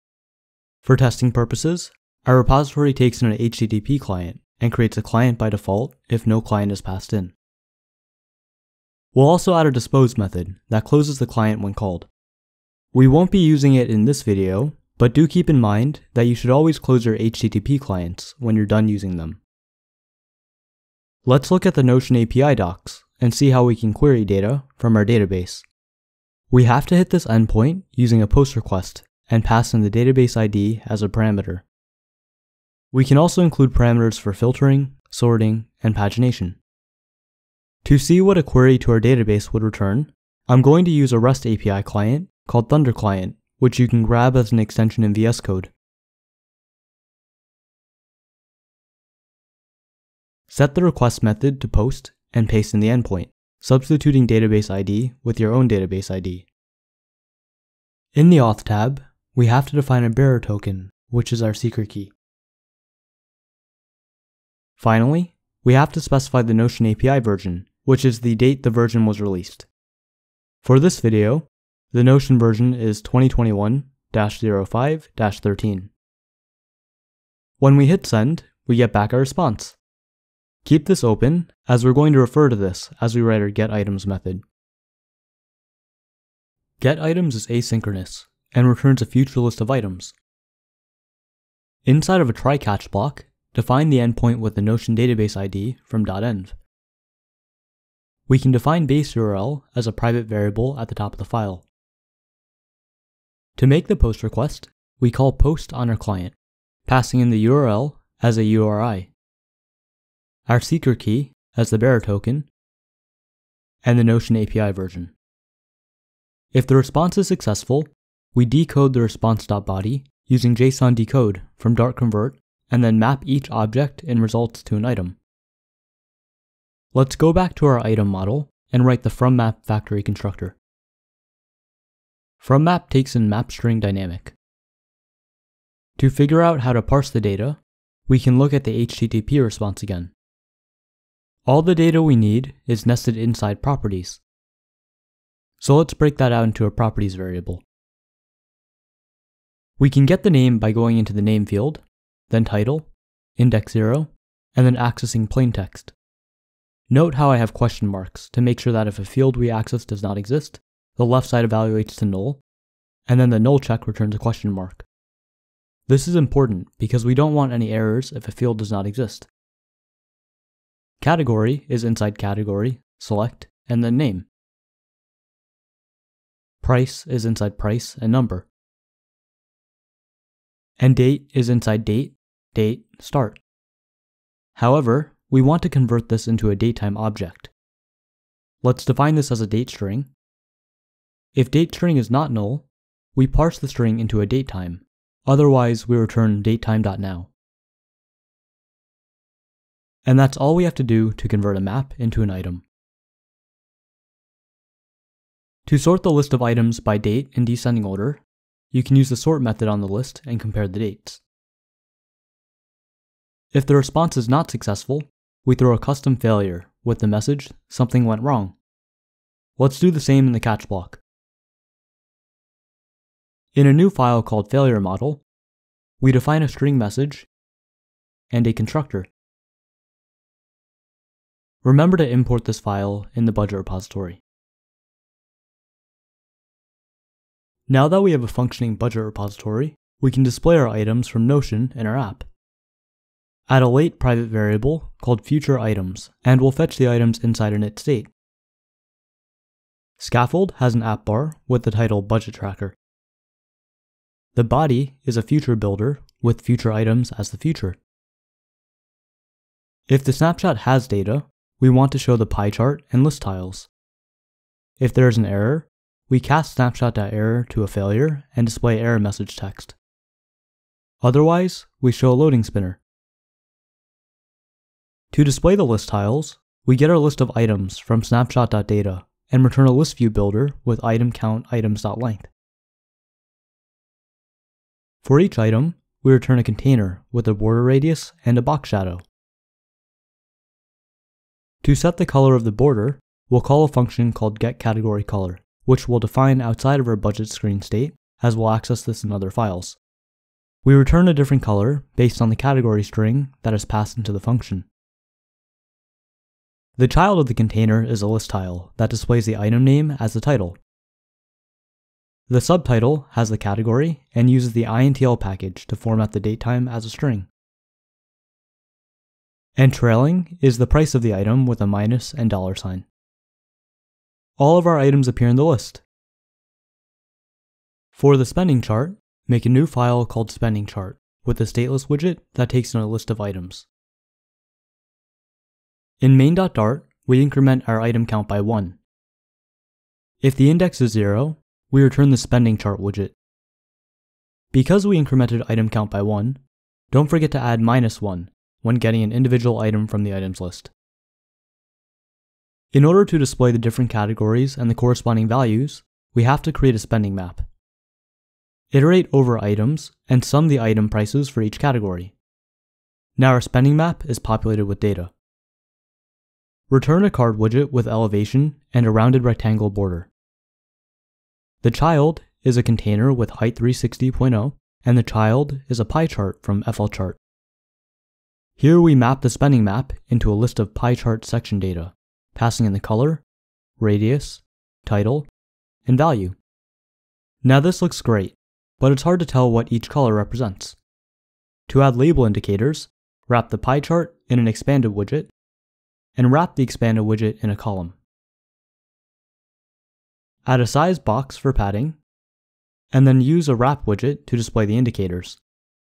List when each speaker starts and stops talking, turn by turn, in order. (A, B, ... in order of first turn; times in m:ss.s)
0:00.8-0:07.3 A
0:09.1-0:12.1 A
0:12.9-0:19.4 A
0:21.2-0:25.6 A
0:26.5-0:31.6 A
0:32.9-0:36.6 A
0:37.8-0:45.7 A
0:50.5-0:56.5 A
0:58.1-1:02.1 A
1:04.8-1:09.7 A
1:10.6-1:15.9 A
1:17.6-1:19.8 A
1:20.6-1:24.4 A
1:26.8-1:30.1 A
1:31.8-1:36.6 A
1:38.3-1:41.6 A
1:43.6-1:49.1 A
1:50.5-1:52.5 A
1:53.8-1:55.1 A
1:56.5-2:05.2 A
2:06.9-2:10.6 A
2:12.4-2:14.4 A
2:16.0-2:20.1 A
2:21.4-2:24.2 A
2:25.6-2:27.6 A
2:29.8-2:35.9 A
2:36.9-2:42.4 A
2:43.1-2:44.8 A
2:45.9-2:49.3 A
2:51.0-2:54.3 A
2:56.6-2:58.5 A
3:00.8-3:03.4 A
3:04.5-3:07.5 A
3:08.6-3:10.1 A
3:11.3-3:17.3 A
3:20.0-3:22.6 A
3:25.6-3:31.2 A
3:33.5-3:38.5 A
3:39.6-3:41.0 A
3:43.5-3:45.2 A
3:46.0-3:47.3 A
3:48.3-3:49.1 A
3:51.6-3:54.2 A
3:57.7-4:02.3 A
4:03.5-4:08.1 A
4:10.0-4:12.8 A
4:14.3-4:17.8 A
4:19.9-4:23.7 A
4:24.8-4:29.8 A
4:31.0-4:32.8 A
4:35.1-4:42.3 A
4:45.0-4:49.0 A
4:51.6-4:59.8 A
5:00.6-5:04.7 A
5:06.8-5:10.6 A
5:12.3-5:17.3 A
5:19.6-5:22.8 A
5:24.4-5:25.8 A
5:27.9-5:33.6 A
5:36.0-5:38.8 A
5:40.2-5:43.1 A
5:44.5-5:46.4 A
5:46.9-5:50.7 A
5:52.7-5:57.5 A
5:58.7-6:02.1 A
6:03.2-6:05.1 A
6:06.7-6:10.1 A
6:11.6-6:17.2 A
6:18.6-6:23.2 A
6:23.8-6:25.3 A
6:25.8-6:26.4 A
6:27.4-6:30.8 A
6:31.7-6:35.3 A
6:36.2-6:38.0 A
6:40.4-6:42.0 A
6:42.9-6:45.4 A